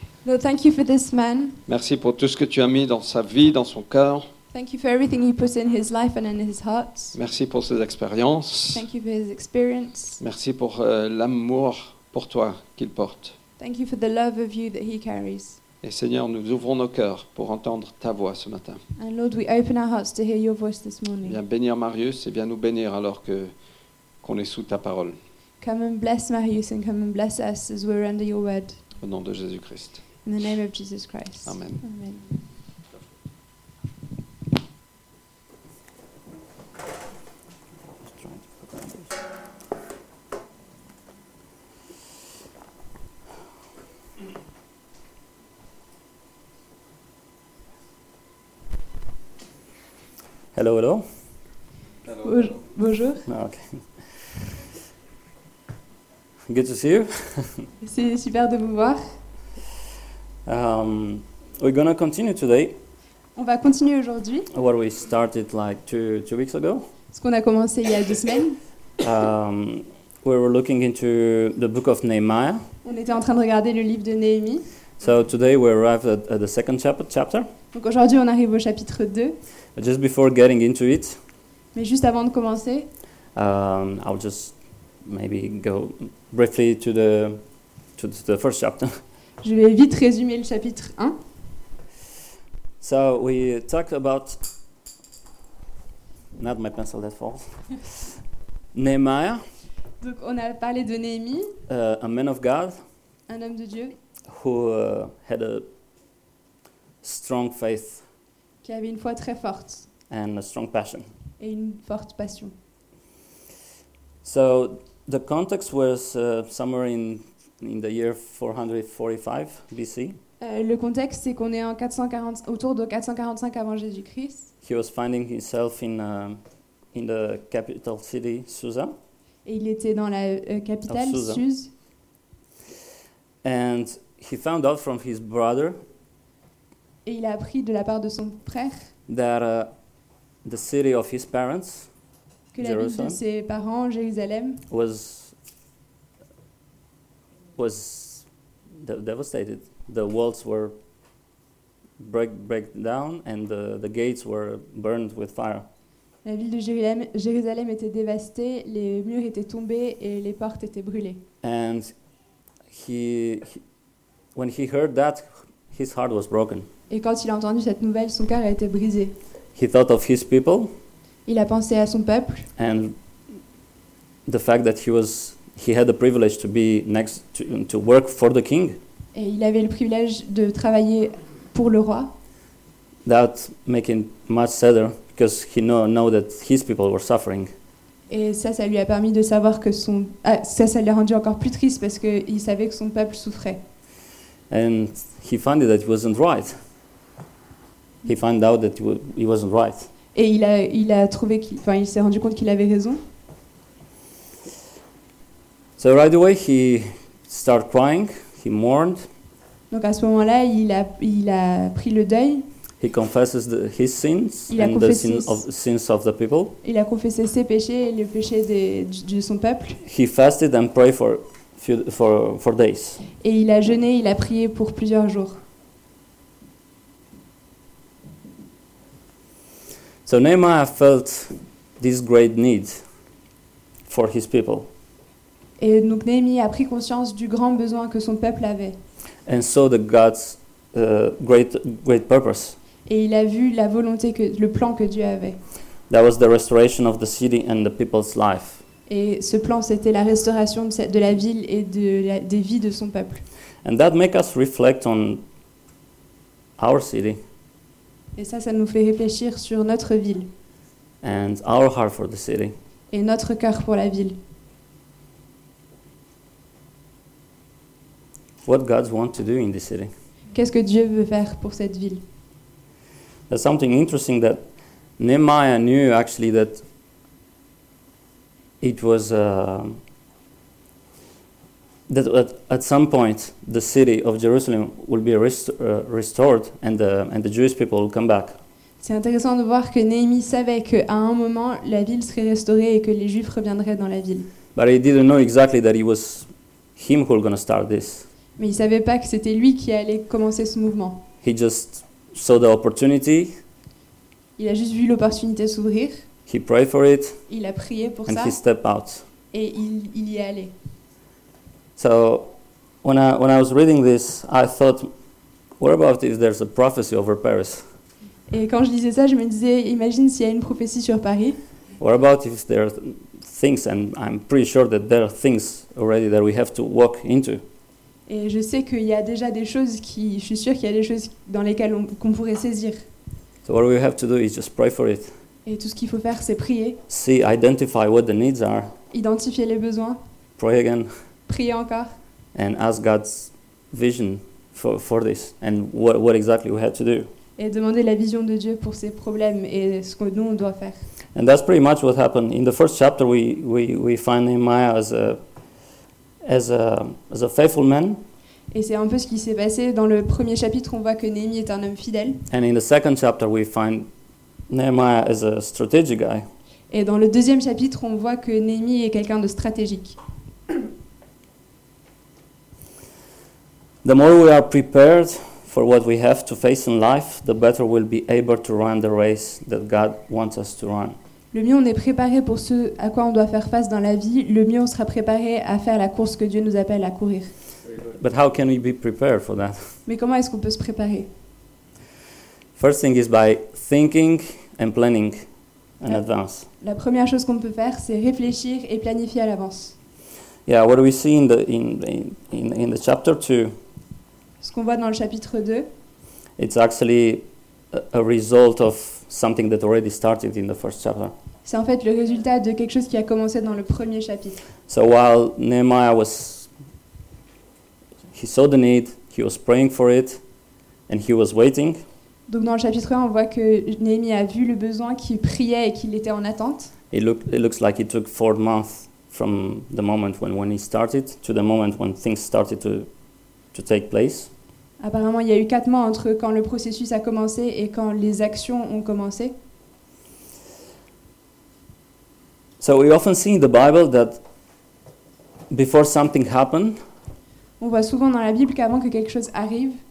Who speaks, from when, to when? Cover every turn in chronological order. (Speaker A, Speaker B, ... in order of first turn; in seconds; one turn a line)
Speaker A: 0.2-1.6
Speaker B: 1.7-4.2
Speaker A: 4.5-7.1
Speaker B: 7.1-8.8
Speaker A: 8.7-10.2
Speaker B: 10.2-13.3
Speaker A: 13.6-15.6
Speaker B: 15.8-18.8
Speaker A: 19.0-21.4
Speaker B: 21.3-23.5
Speaker B: 24.2-25.1
Speaker A: 25.6-28.8
Speaker B: 29.0-30.0
Speaker A: 30.2-32.2
Speaker B: 31.4-31.8
Speaker C: 38.2-39.1
Speaker C: 50.5-51.0
Speaker A: 52.1-53.2
Speaker C: 53.3-53.8
Speaker C: 56.5-57.7
Speaker A: 57.8-59.1
Speaker C: 60.4-62.8
Speaker A: 63.4-64.5
Speaker C: 64.5-66.9
Speaker A: 67.1-68.6
Speaker C: 69.0-72.7
Speaker A: 72.8-74.6
Speaker C: 75.0-77.5
Speaker A: 77.7-79.3
Speaker C: 79.8-81.2
Speaker A: 81.7-82.9
Speaker C: 83.3-87.4
Speaker C: 88.0-89.0
Speaker A: 89.4-91.2
Speaker C: 92.8-94.4
Speaker C: 96.3-98.1
Speaker C: 98.7-99.4
Speaker A: 100.0-101.5
Speaker C: 101.7-102.8
Speaker A: 103.3-103.9
Speaker C: 104.3-105.7
Speaker C: 107.0-108.0
Speaker A: 108.6-109.8
Speaker C: 110.1-111.0
Speaker A: 111.4-112.5
Speaker C: 114.2-120.2
Speaker A: 120.4-124.5
Speaker C: 124.6-126.4
Speaker C: 126.9-128.9
Speaker A: 129.4-131.7
Speaker C: 130.9-131.4
Speaker C: 133.4-135.8
Speaker A: 137.0-138.9
Speaker C: 139.1-139.7
Speaker C: 140.4-141.9
Speaker A: 142.5-144.6
Speaker C: 142.6-143.2
Speaker C: 144.7-145.3
Speaker C: 147.6-148.2
Speaker C: 148.8-150.7
Speaker C: 152.0-155.7
Speaker A: 156.2-161.2
Speaker C: 161.4-161.9
Speaker C: 162.7-163.6
Speaker C: 164.3-166.7
Speaker A: 166.9-169.1
Speaker C: 169.5-170.7
Speaker A: 171.2-172.5
Speaker C: 172.6-173.0
Speaker C: 174.2-178.8
Speaker A: 179.1-182.1
Speaker C: 183.1-187.5
Speaker A: 188.1-193.6
Speaker C: 194.5-196.6
Speaker C: 198.0-199.9
Speaker A: 200.1-203.0
Speaker C: 205.8-209.1
Speaker A: 209.7-212.4
Speaker C: 212.8-216.5
Speaker A: 214.5-215.4
Speaker A: 216.6-219.8
Speaker C: 219.8-223.0
Speaker A: 223.2-225.4
Speaker C: 230.1-232.8
Speaker C: 233.9-234.7
Speaker A: 235.6-238.8
Speaker C: 239.2-242.6
Speaker A: 242.8-245.4
Speaker C: 245.9-248.6
Speaker A: 248.9-253.2
Speaker C: 253.6-255.2
Speaker C: 256.6-257.2
Speaker A: 258.1-260.3
Speaker C: 261.0-262.5
Speaker A: 262.9-264.1
Speaker C: 268.4-269.9
Speaker A: 270.3-272.0
Speaker C: 273.3-274.4
Speaker C: 275.0-276.6
Speaker C: 278.6-279.8
Speaker C: 281.9-288.4
Speaker A: 288.8-294.3
Speaker C: 294.5-298.1
Speaker A: 298.4-301.0
Speaker C: 301.2-303.4
Speaker A: 304.4-306.0
Speaker C: 306.3-307.2
Speaker A: 307.3-308.4
Speaker C: 308.1-309.1
Speaker A: 309.3-310.5
Speaker C: 311.8-312.3
Speaker C: 312.8-314.9
Speaker C: 315.6-317.6
Speaker A: 318.3-321.4
Speaker C: 321.8-327.4
Speaker A: 328.1-332.8
Speaker C: 333.4-335.1
Speaker A: 335.4-336.8
Speaker C: 336.9-338.7
Speaker A: 338.9-340.0
Speaker C: 340.4-340.9
Speaker A: 341.3-341.9
Speaker C: 342.3-347.1
Speaker A: 347.4-350.8
Speaker C: 351.1-355.2
Speaker C: 356.2-358.0
Speaker A: 358.5-362.2
Speaker C: 362.3-363.9
Speaker C: 364.5-366.2
Speaker A: 366.7-370.0
Speaker C: 373.8-380.9
Speaker A: 381.3-387.3
Speaker C: 387.8-389.7
Speaker A: 389.9-391.1
Speaker C: 392.6-395.2
Speaker C: 395.8-396.5
Speaker A: 396.6-399.7
Speaker C: 400.4-403.5
Speaker A: 404.4-405.6
Speaker C: 406.4-411.1
Speaker A: 411.4-414.4
Speaker C: 414.7-416.5
Speaker C: 418.1-420.2
Speaker C: 420.9-421.8
Speaker A: 422.3-426.7
Speaker C: 426.9-432.9
Speaker C: 433.5-434.3
Speaker A: 434.8-439.3
Speaker C: 442.6-444.2
Speaker C: 445.5-446.8
Speaker A: 447.6-449.8